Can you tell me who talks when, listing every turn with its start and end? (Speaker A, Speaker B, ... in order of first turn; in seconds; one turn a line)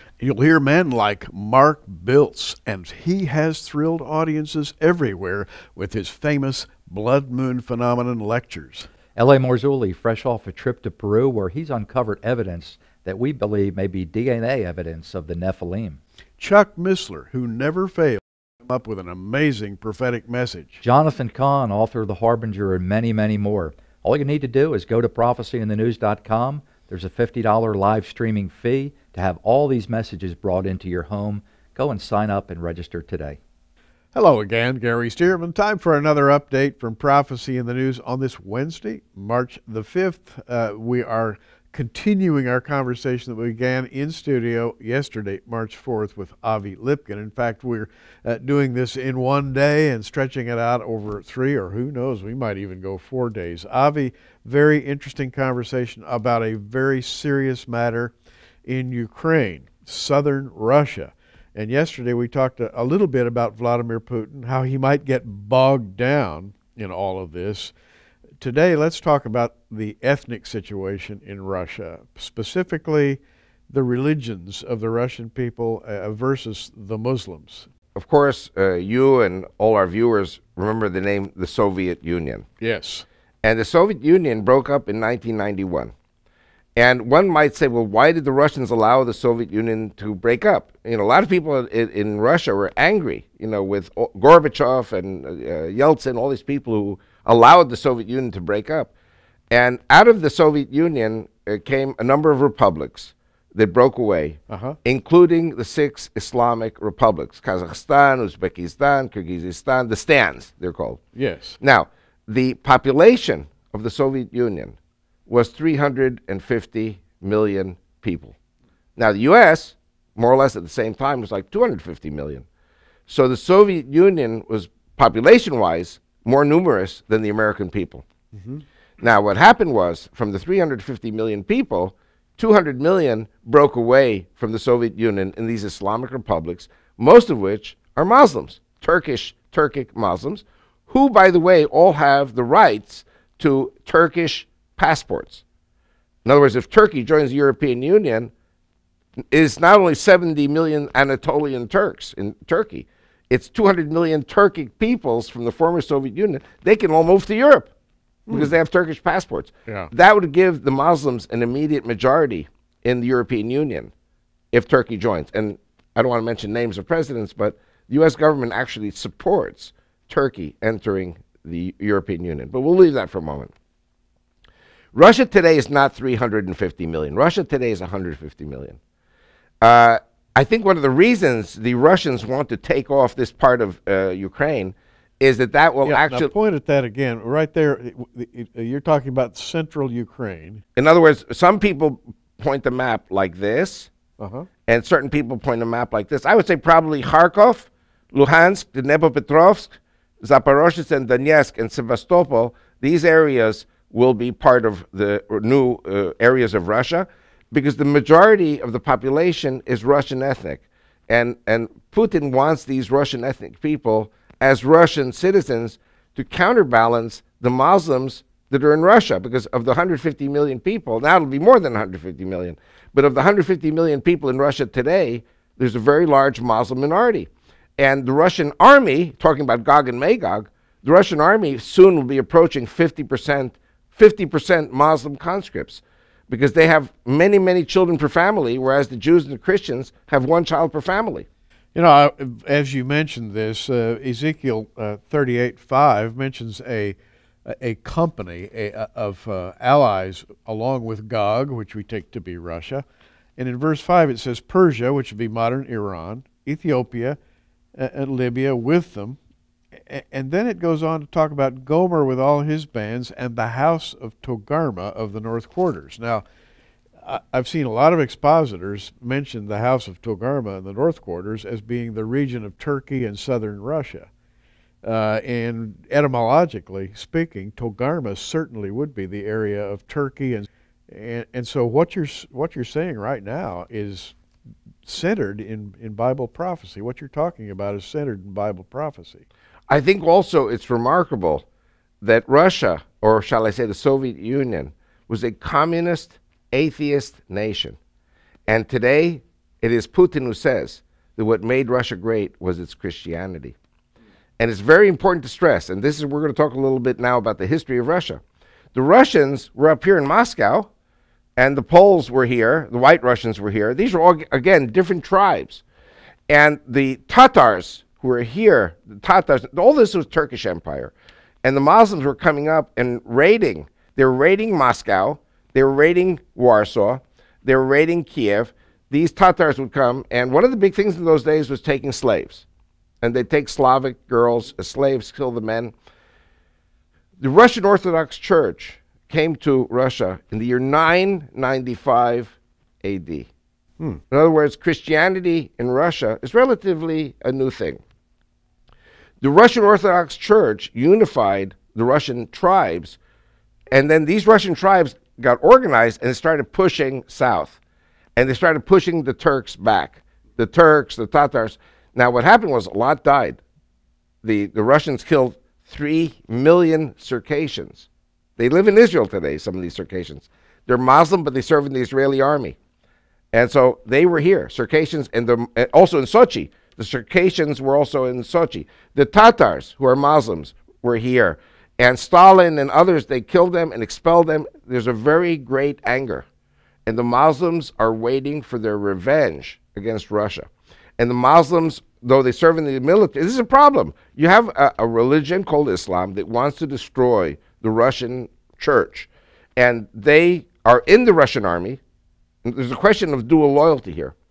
Speaker A: 0.2-8.9
Speaker B: 9.2-16.0
Speaker A: 16.4-20.8
Speaker B: 20.8-33.4
Speaker A: 34.1-58.1
Speaker A: 58.7-67.7
Speaker A: 68.4-77.7
Speaker C: 78.0-82.5
Speaker A: 82.6-83.1
Speaker C: 83.4-85.9
Speaker C: 86.8-98.9
Speaker C: 99.5-111.0
Speaker A: 104.5-104.8
Speaker A: 111.2-111.6
Speaker C: 111.6-114.8
Speaker C: 115.3-118.3
Speaker C: 119.0-122.5
Speaker C: 123.1-128.1
Speaker A: 128.3-128.6
Speaker C: 129.0-145.4
Speaker C: 146.2-148.3
Speaker C: 149.3-157.7
Speaker C: 158.3-163.9
Speaker C: 164.5-173.5
Speaker C: 174.9-178.8
Speaker C: 179.6-186.3
Speaker A: 185.8-190.6
Speaker C: 190.8-193.9
Speaker A: 194.2-194.5
Speaker C: 194.7-241.3
Speaker A: 241.8-252.8
Speaker A: 253.4-257.2
Speaker A: 257.8-259.2
Speaker A: 259.8-266.2
Speaker A: 267.0-274.1
Speaker A: 274.8-284.2
Speaker A: 284.9-289.2
Speaker C: 289.7-291.4
Speaker C: 292.0-297.8
Speaker C: 298.5-303.6
Speaker C: 304.4-308.2
Speaker C: 308.8-310.7
Speaker C: 311.4-315.6
Speaker C: 316.3-332.5
Speaker C: 333.0-335.7
Speaker C: 337.2-343.3
Speaker C: 344.1-347.8
Speaker C: 349.2-353.0
Speaker C: 353.7-357.6
Speaker C: 358.2-363.4
Speaker C: 364.2-367.9
Speaker C: 368.4-372.6
Speaker C: 373.3-386.2
Speaker C: 386.9-401.8
Speaker C: 402.4-404.1